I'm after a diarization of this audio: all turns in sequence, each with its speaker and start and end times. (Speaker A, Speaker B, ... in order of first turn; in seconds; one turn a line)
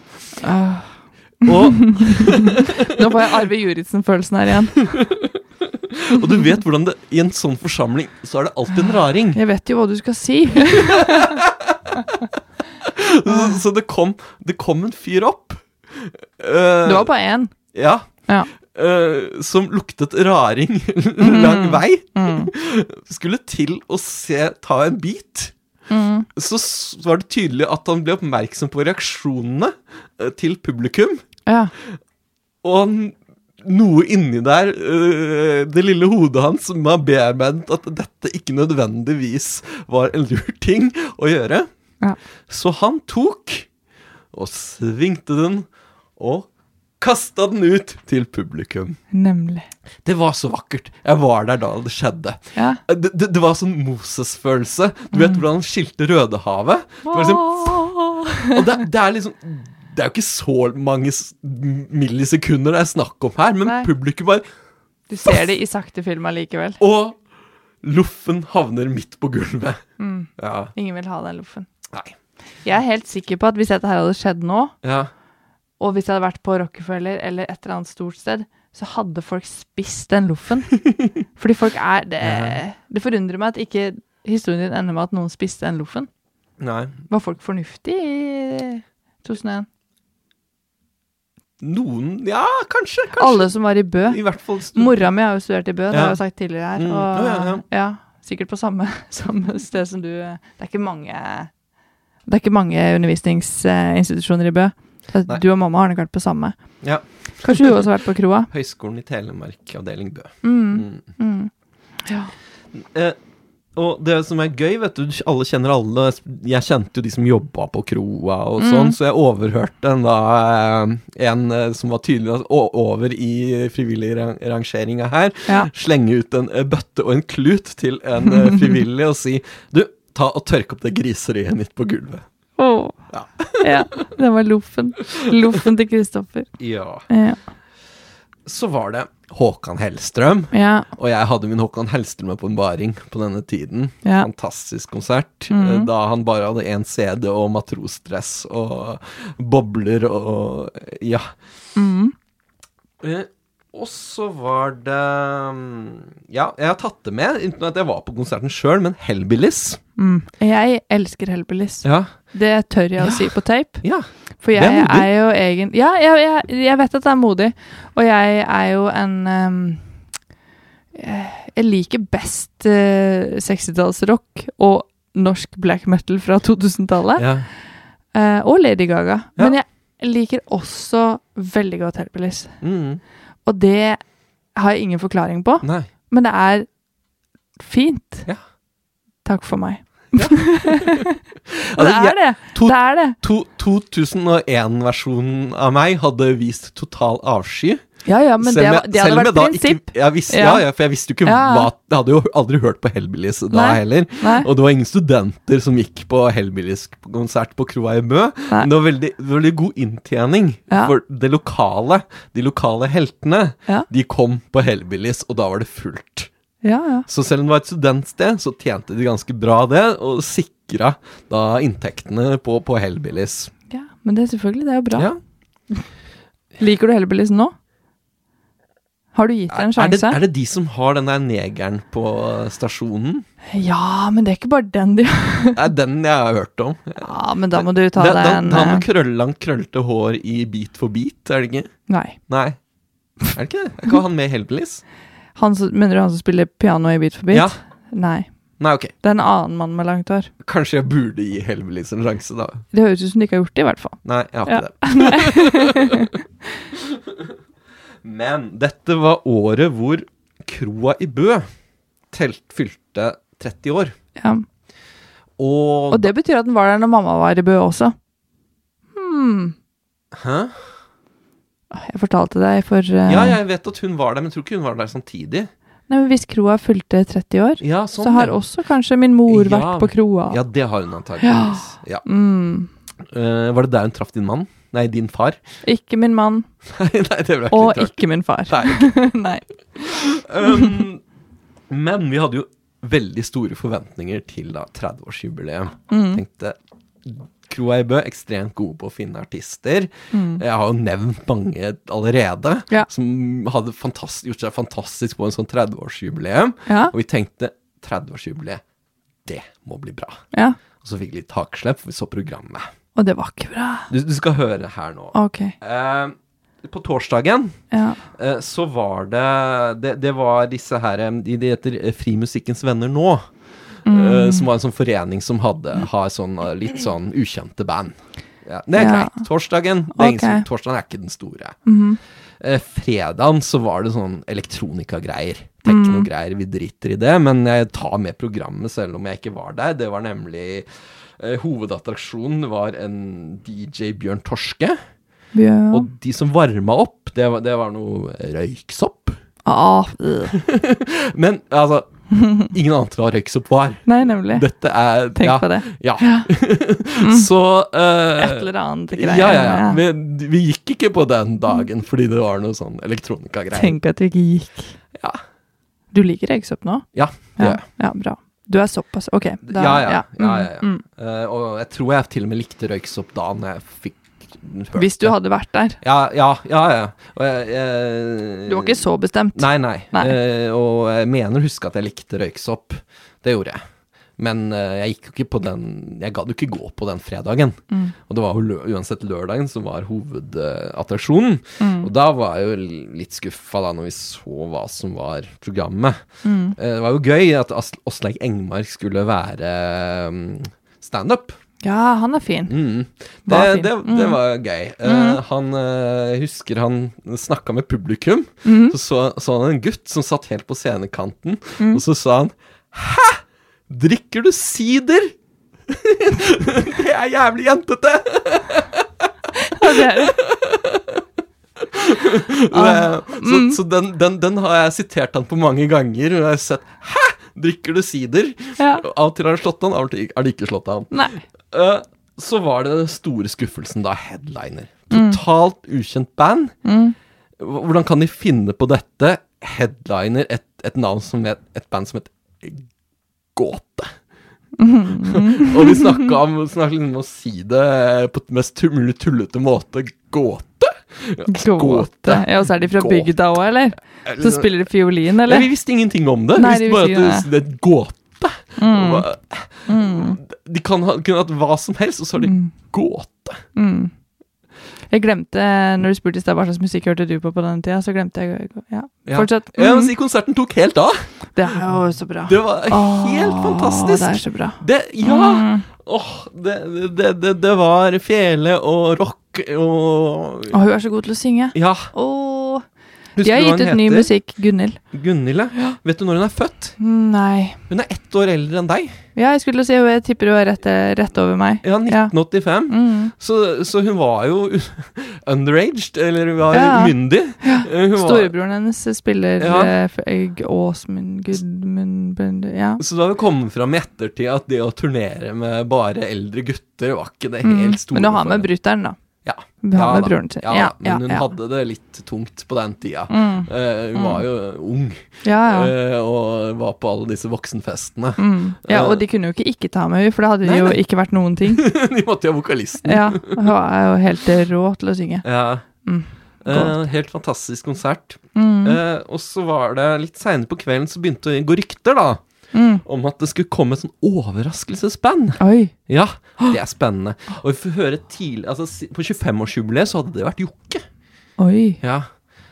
Speaker A: 0.4-5.0
Speaker B: 1.4-2.6
Speaker B: 4.8-5.4
Speaker B: 6.0-9.4
Speaker A: 6.1-6.6
Speaker A: 9.3-11.4
Speaker B: 11.7-12.1
Speaker B: 12.8-17.1
Speaker A: 13.3-13.6
Speaker A: 16.9-18.5
Speaker B: 17.7-25.6
Speaker A: 21.2-22.5
Speaker A: 25.9-26.3
Speaker B: 26.4-31.2
Speaker A: 31.5-31.7
Speaker B: 32.6-41.7
Speaker B: 42.5-43.7
Speaker B: 44.3-49.0
Speaker A: 49.1-49.7
Speaker B: 50.0-64.5
Speaker A: 52.5-52.8
Speaker A: 55.1-55.4
Speaker A: 57.0-58.6
Speaker A: 63.6-63.9
Speaker A: 65.1-66.8
Speaker B: 66.8-69.9
Speaker A: 70.0-71.7
Speaker B: 70.4-70.7
Speaker B: 71.9-72.2
Speaker A: 72.5-74.8
Speaker B: 74.8-75.1
Speaker A: 75.8-86.1
Speaker B: 82.2-82.6
Speaker B: 86.6-87.0
Speaker A: 87.1-89.7
Speaker B: 91.6-95.1
Speaker A: 93.1-101.6
Speaker B: 95.9-97.6
Speaker A: 102.3-108.5
Speaker B: 106.8-107.8
Speaker B: 108.5-111.1
Speaker A: 110.4-111.5
Speaker A: 112.0-112.3
Speaker B: 112.7-113.2
Speaker B: 113.7-132.3
Speaker A: 118.6-119.0
Speaker A: 132.6-137.4
Speaker B: 133.1-134.0
Speaker B: 136.6-137.1
Speaker B: 138.4-151.4
Speaker A: 140.5-140.9
Speaker A: 144.0-144.3
Speaker A: 145.5-145.9
Speaker A: 151.8-152.1
Speaker B: 153.0-159.8
Speaker A: 160.0-170.3
Speaker B: 161.8-162.3
Speaker B: 163.0-165.1
Speaker A: 170.9-186.8
Speaker B: 177.2-177.5
Speaker B: 182.6-183.0
Speaker B: 185.6-185.9
Speaker A: 187.6-188.3
Speaker A: 189.2-191.2
Speaker B: 190.1-191.1
Speaker B: 191.7-216.3
Speaker A: 191.8-193.2
Speaker A: 198.1-201.7
Speaker A: 203.5-204.5
Speaker A: 216.6-217.1
Speaker B: 217.1-223.5
Speaker A: 223.7-225.1
Speaker A: 226.6-227.5
Speaker A: 229.1-230.2
Speaker B: 229.5-233.2
Speaker A: 233.5-235.6
Speaker B: 235.6-242.6
Speaker A: 237.0-238.8
Speaker A: 241.9-242.3
Speaker B: 243.2-244.8
Speaker A: 245.3-250.3
Speaker B: 247.3-247.7
Speaker B: 248.6-248.9
Speaker B: 250.4-252.7
Speaker A: 252.7-256.1
Speaker B: 254.0-255.8
Speaker B: 258.0-261.5
Speaker B: 262.1-264.0
Speaker A: 264.2-264.5
Speaker B: 265.4-266.1
Speaker A: 265.9-267.9
Speaker A: 268.9-269.6
Speaker B: 270.2-270.8
Speaker A: 271.7-273.4
Speaker B: 273.1-275.5
Speaker A: 275.9-280.4
Speaker B: 277.6-278.4
Speaker B: 279.3-282.1
Speaker A: 281.2-282.7
Speaker B: 283.1-285.4
Speaker A: 285.6-286.5
Speaker B: 286.7-289.0
Speaker A: 287.5-290.7
Speaker B: 289.8-291.1
Speaker B: 291.7-308.6
Speaker A: 295.9-296.2
Speaker A: 300.1-300.4
Speaker A: 306.7-306.9
Speaker B: 309.2-310.2
Speaker A: 310.3-310.6
Speaker B: 310.8-312.7
Speaker A: 312.9-313.9
Speaker B: 313.9-317.6
Speaker A: 315.1-315.6
Speaker A: 317.7-318.0
Speaker B: 318.1-331.7
Speaker A: 323.9-324.5
Speaker A: 328.8-329.3
Speaker A: 329.9-330.5
Speaker A: 331.7-332.0
Speaker B: 332.4-344.8
Speaker A: 335.7-336.1
Speaker A: 345.3-345.9
Speaker B: 345.7-349.2
Speaker A: 349.5-350.4
Speaker B: 350.4-363.8
Speaker A: 353.9-356.3
Speaker A: 357.0-357.3
Speaker A: 358.2-359.8
Speaker A: 363.5-364.8
Speaker A: 365.9-370.8
Speaker B: 366.9-367.6
Speaker B: 369.4-383.6
Speaker A: 374.8-375.8
Speaker A: 378.5-380.2
Speaker B: 384.2-401.4
Speaker A: 391.6-391.9
Speaker A: 396.2-396.6
Speaker A: 401.6-402.6
Speaker B: 402.5-415.2
Speaker A: 403.3-404.2
Speaker A: 404.8-405.2
Speaker A: 408.4-408.8
Speaker A: 411.6-411.8
Speaker B: 415.7-419.1
Speaker A: 419.4-420.2
Speaker B: 419.8-421.0
Speaker B: 421.6-436.6
Speaker A: 422.5-423.6
Speaker A: 428.6-428.8
Speaker A: 430.9-431.2
Speaker A: 434.9-435.2
Speaker A: 436.6-437.0
Speaker B: 437.4-442.7
Speaker B: 443.3-444.1
Speaker A: 444.6-445.9
Speaker B: 445.1-463.5
Speaker A: 451.3-457.3
Speaker A: 458.6-460.2
Speaker A: 462.2-462.7
Speaker A: 463.5-464.0
Speaker A: 464.9-469.9
Speaker B: 469.1-471.4
Speaker A: 471.3-475.7
Speaker B: 472.3-480.6
Speaker A: 480.5-484.8
Speaker B: 481.5-481.9
Speaker B: 483.2-484.1
Speaker B: 484.9-486.8
Speaker A: 486.8-487.6
Speaker B: 487.7-489.0
Speaker A: 489.1-493.1
Speaker B: 491.6-498.3
Speaker A: 496.5-502.8
Speaker B: 499.4-499.8
Speaker B: 502.8-508.5
Speaker A: 507.4-509.0
Speaker B: 509.2-519.0
Speaker A: 509.6-511.3
Speaker A: 513.1-514.2
Speaker A: 515.2-515.7
Speaker A: 518.2-521.8
Speaker B: 520.4-520.8
Speaker B: 521.4-523.4
Speaker A: 522.8-526.8
Speaker B: 525.2-540.9
Speaker A: 528.4-528.8
Speaker A: 532.5-532.8
Speaker A: 535.4-535.7
Speaker A: 541.4-541.8
Speaker B: 541.8-542.1